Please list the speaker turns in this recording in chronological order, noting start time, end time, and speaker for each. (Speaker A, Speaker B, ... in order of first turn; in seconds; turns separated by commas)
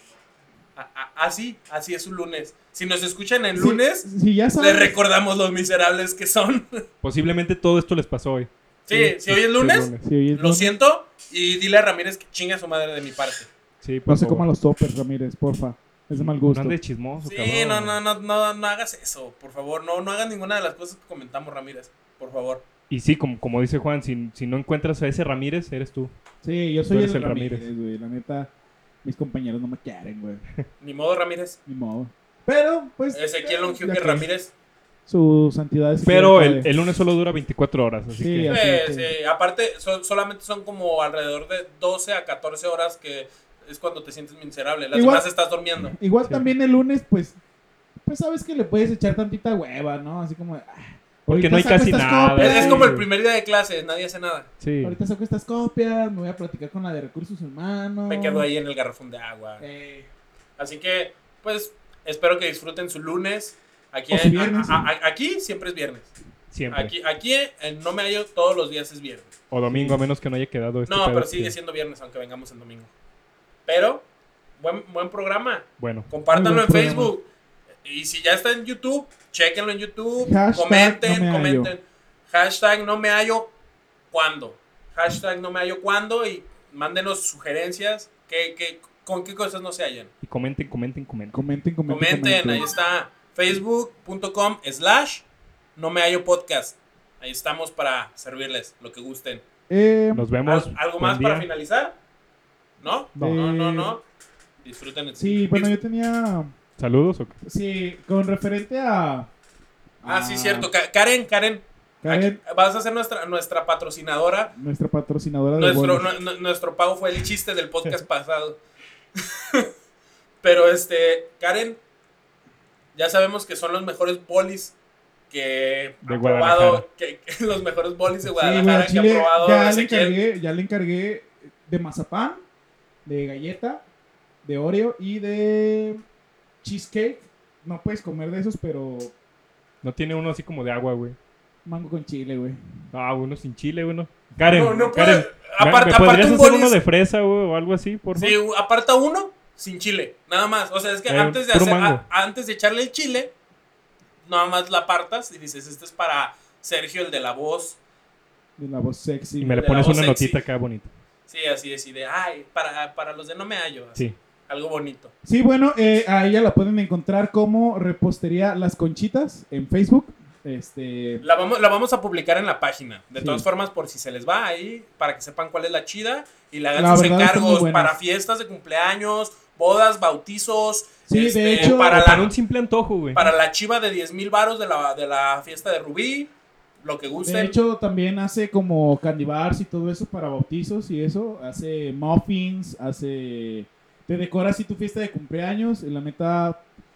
Speaker A: 0.8-4.1, Speaker B: 3.5-5.0, Speaker A: 4.6-6.8, Speaker C: 7.0-10.1, Speaker A: 8.9-13.5, Speaker B: 10.0-10.7, Speaker C: 13.8-14.5, Speaker B: 14.1-16.8, Speaker C: 16.1-18.0, Speaker A: 17.2-22.6, Speaker C: 22.9-26.1, Speaker B: 26.4-28.5, Speaker C: 26.9-27.7, Speaker B: 29.0-30.4, Speaker A: 30.8-31.6, Speaker B: 31.7-34.3, Speaker A: 33.1-34.5, Speaker B: 35.1-36.7, Speaker C: 36.0-38.6, Speaker B: 38.2-39.1, Speaker A: 38.5-46.0, Speaker B: 44.9-45.2, Speaker B: 45.8-47.4, Speaker C: 46.2-46.5, Speaker B: 48.0-53.0, Speaker C: 51.3-53.1, Speaker A: 52.4-54.5, Speaker C: 54.6-55.0, Speaker B: 54.8-58.5, Speaker A: 58.1-59.6, Speaker B: 59.6-60.1, Speaker A: 60.6-66.1, Speaker B: 64.1-64.9, Speaker C: 66.5-66.9, Speaker A: 66.7-69.3, Speaker C: 69.5-71.5, Speaker B: 69.7-70.0, Speaker A: 70.9-72.9, Speaker A: 73.7-74.0, Speaker A: 74.6-77.3, Speaker C: 75.8-76.1, Speaker B: 76.3-77.2, Speaker A: 77.8-83.5, Speaker B: 80.2-81.8, Speaker A: 84.1-90.1, Speaker C: 90.2-91.4, Speaker B: 91.3-92.7, Speaker A: 91.9-95.2, Speaker A: 95.8-99.4, Speaker B: 99.7-100.3, Speaker C: 100.1-101.5, Speaker A: 100.5-102.0, Speaker A: 102.8-104.0, Speaker B: 103.2-104.0, Speaker A: 104.6-105.8, Speaker B: 105.2-106.5, Speaker C: 106.8-107.4, Speaker B: 107.4-109.3, Speaker B: 110.0-110.7, Speaker A: 110.1-114.5, Speaker B: 112.0-112.4, Speaker B: 114.6-116.1, Speaker A: 115.6-118.6, Speaker A: 119.2-119.7, Speaker A: 120.4-121.8, Speaker A: 123.0-124.7, Speaker A: 125.3-130.2, Speaker C: 126.0-126.8, Speaker B: 128.3-132.4, Speaker B: 133.1-133.8, Speaker B: 134.4-136.0, Speaker B: 136.6-139.1, Speaker C: 139.8-141.2, Speaker B: 141.7-142.6, Speaker C: 142.9-148.4, Speaker A: 144.5-146.8, Speaker A: 148.2-153.3, Speaker C: 151.1-152.1, Speaker A: 154.2-157.8, Speaker B: 158.6-159.7, Speaker C: 159.4-160.9, Speaker A: 159.6-160.4, Speaker A: 161.3-165.1, Speaker B: 165.2-171.2, Speaker A: 171.2-182.3, Speaker B: 173.2-173.5, Speaker B: 176.8-178.0, Speaker B: 181.1-181.9, Speaker C: 181.6-183.3, Speaker A: 183.2-186.3, Speaker A: 186.8-187.6, Speaker B: 187.2-196.6